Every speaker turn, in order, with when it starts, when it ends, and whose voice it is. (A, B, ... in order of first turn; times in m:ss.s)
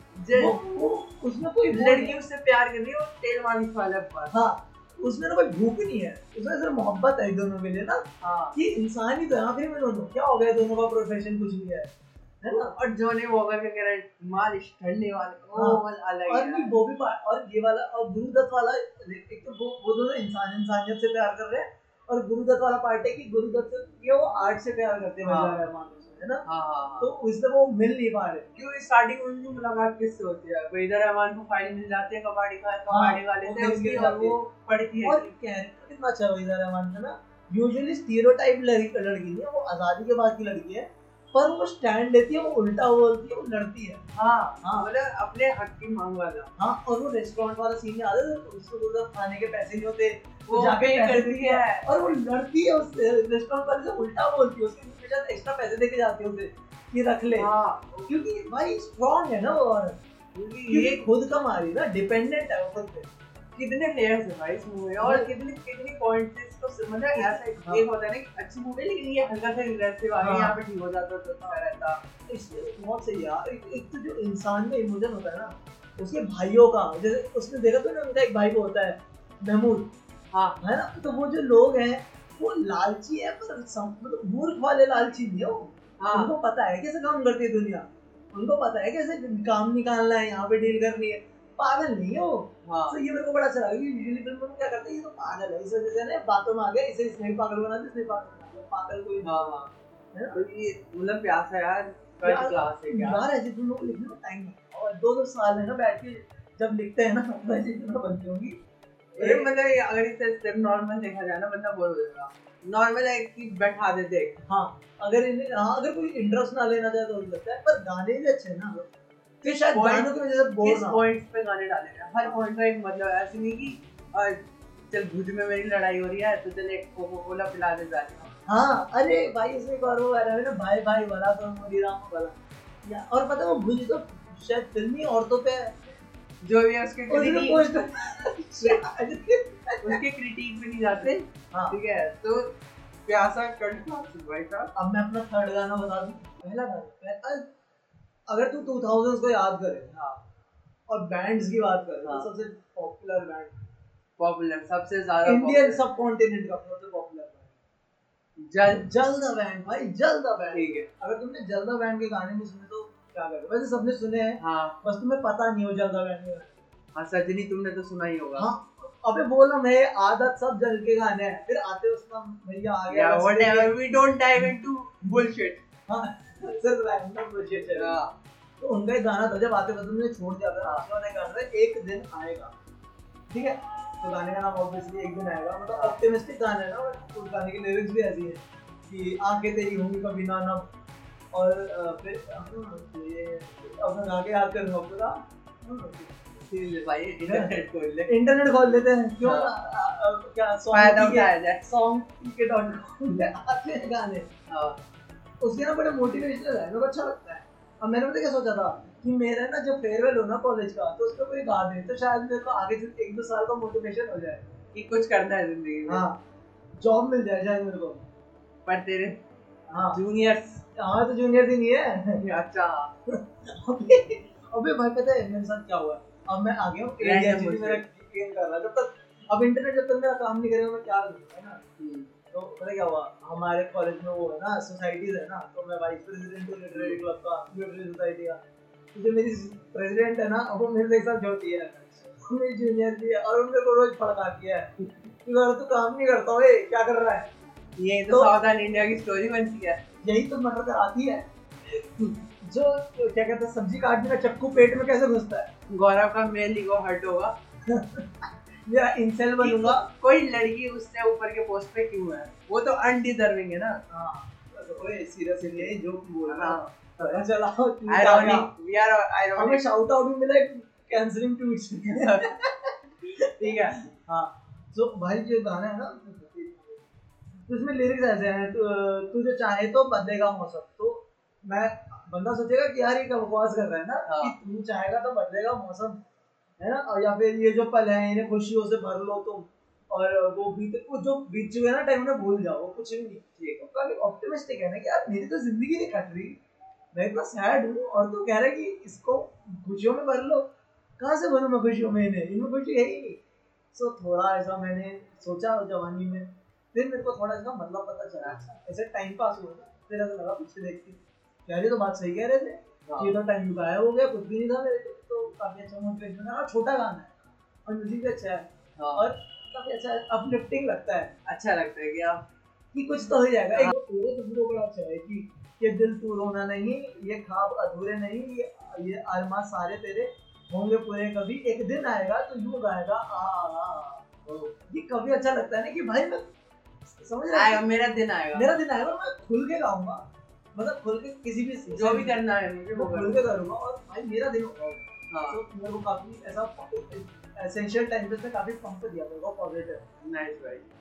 0:00.2-0:00.9 A
0:00.4-0:02.2 B
0:01.7-0:04.4 A
0:04.3-0:11.9 B
0:08.2-0:08.6 A
0:12.4-0:12.8 B
0:12.5-0:16.8 A
0:15.6-0:26.4 B
0:25.3-0:25.6 A
0:26.5-0:27.1 A
0:27.0-0:28.5 B
0:28.6-0:35.3 A
0:32.9-0:34.4 B
0:35.0-0:44.0 B
0:44.1-0:46.5 A
0:44.6-0:44.9 B
0:46.6-0:57.5 B
0:50.5-0:52.2 A
0:57.4-0:58.2 A
0:58.1-1:00.0 B
1:00.4-1:01.0 A
1:00.7-1:03.1 B
1:03.6-1:12.0 A
1:05.0-1:05.3 B
1:07.2-1:07.9 B
1:10.2-1:10.6 B
1:12.3-1:19.9 B
1:20.3-1:20.6 A
1:20.6-1:39.5 B
1:26.0-1:26.3 A
1:32.7-1:33.0 A
1:39.2-1:39.7 A
1:40.1-1:40.4 B
1:40.3-1:43.2 A
1:42.2-1:48.6 B
1:49.2-1:54.4 A
1:49.2-1:49.5 B
1:54.4-1:58.9 B
1:59.4-2:01.0 B
1:59.4-2:08.3 A
2:08.4-2:15.9 B
2:16.4-2:18.0 A
2:17.1-2:20.0 B
2:19.8-2:24.7 A
2:21.5-2:21.8 B
2:24.8-2:27.5 B
2:28.3-2:29.9 B
2:29.9-2:30.2 A
2:30.9-2:33.6 B
2:32.0-2:32.3 A
2:34.2-2:35.8 A
2:35.2-2:37.6 B
2:38.4-2:38.9 A
2:38.7-2:46.7 B
2:40.5-2:40.9 A
2:44.4-2:44.8 A
2:47.0-2:48.5 A
2:48.4-2:53.8 B
2:52.9-2:55.6 A
2:55.9-2:58.0 B
2:57.8-2:58.2 A
2:58.6-3:02.5 B
3:03.3-3:10.7 B
3:11.3-3:16.2 B
3:16.5-3:18.2 A
3:17.3-3:17.5 B
3:18.1-3:24.3 B
3:19.2-3:19.5 A
3:20.7-3:21.6 A
3:24.5-3:24.8 A
3:25.4-3:34.6 B
3:34.7-3:36.1 A
3:35.9-3:36.2 B
3:36.8-3:38.1 B
3:38.7-3:39.2 A
3:39.7-3:40.0 B
3:39.8-3:40.6 A
3:40.7-3:42.2 B
3:42.2-3:42.9 A
3:43.1-3:51.6 B
3:47.0-3:47.8 A
3:51.8-3:52.1 A
3:52.3-3:58.4 B
3:56.7-3:57.0 A
3:58.9-4:04.7 B
4:05.2-4:07.4 B
4:07.8-4:09.8 A
4:08.1-4:08.3 B
4:10.0-4:11.3 B
4:11.7-4:12.2 A
4:12.4-4:15.5 B
4:15.7-4:17.4 A
4:17.6-4:19.8 B
4:19.4-4:23.8 A
4:23.9-4:28.5 B
4:25.4-4:25.7 A
4:26.3-4:27.2 A
4:27.9-4:29.6 A
4:29.4-4:36.8 B
4:31.9-4:32.4 A
4:33.4-4:33.8 A
4:37.4-4:46.0 B
4:44.1-4:44.4 A
4:46.6-4:56.4 B
4:53.4-4:53.6 A
4:56.9-5:03.2 B
5:03.7-5:21.1 B
5:12.9-5:13.1 A
5:18.8-5:19.0 A
5:21.3-5:22.2 A
5:22.7-5:34.0 B
5:34.3-5:34.5 A
5:34.7-5:36.3 B
5:36.8-5:37.7 B
5:37.3-5:38.5 A
5:38.3-5:49.8 B
5:41.7-5:43.2 A
5:45.1-5:45.4 A
5:50.0-5:50.6 A